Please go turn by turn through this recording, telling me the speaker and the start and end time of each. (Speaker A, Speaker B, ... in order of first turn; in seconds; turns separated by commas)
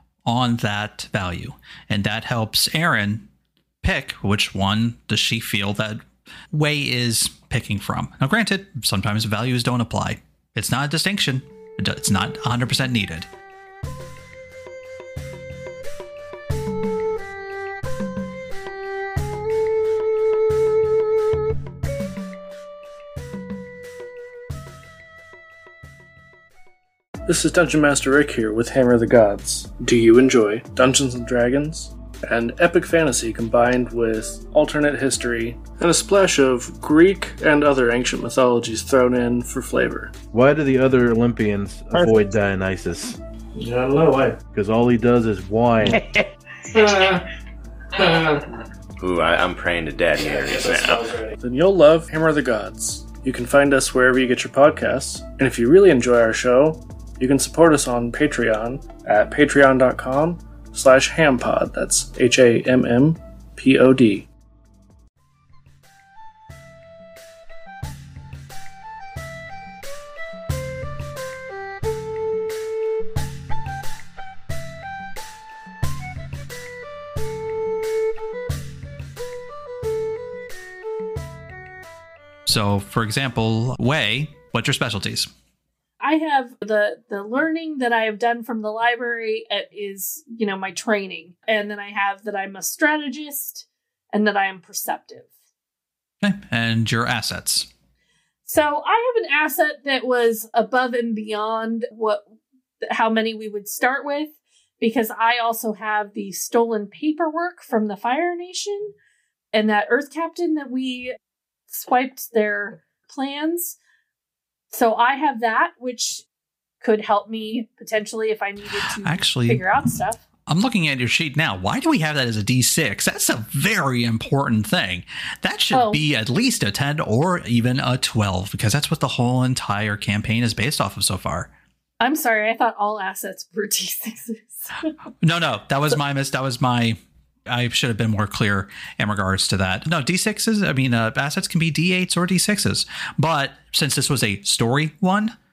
Speaker A: 0.2-3.3, Speaker A: 3.8-13.3, Speaker B: 27.2-40.1, Speaker C: 40.3-43.2, Speaker B: 41.9-42.4, Speaker B: 43.5-44.4, Speaker C: 44.5-46.0, Speaker B: 46.7-47.2, Speaker B: 48.0-48.4, Speaker D: 49.0-51.0, Speaker B: 50.2-64.3, Speaker A: 82.5-85.3, Speaker E: 86.0-95.3, Speaker A: 96.2-97.7, Speaker E: 98.5-102.3, Speaker E: 102.8-108.9, Speaker E: 109.5-111.1, Speaker E: 111.7-113.8, Speaker E: 114.7-116.2, Speaker E: 116.8-120.2, Speaker A: 119.0-119.7, Speaker A: 120.5-131.5, Speaker E: 125.7-126.0, Speaker E: 132.0-134.9, Speaker A: 135.2-145.3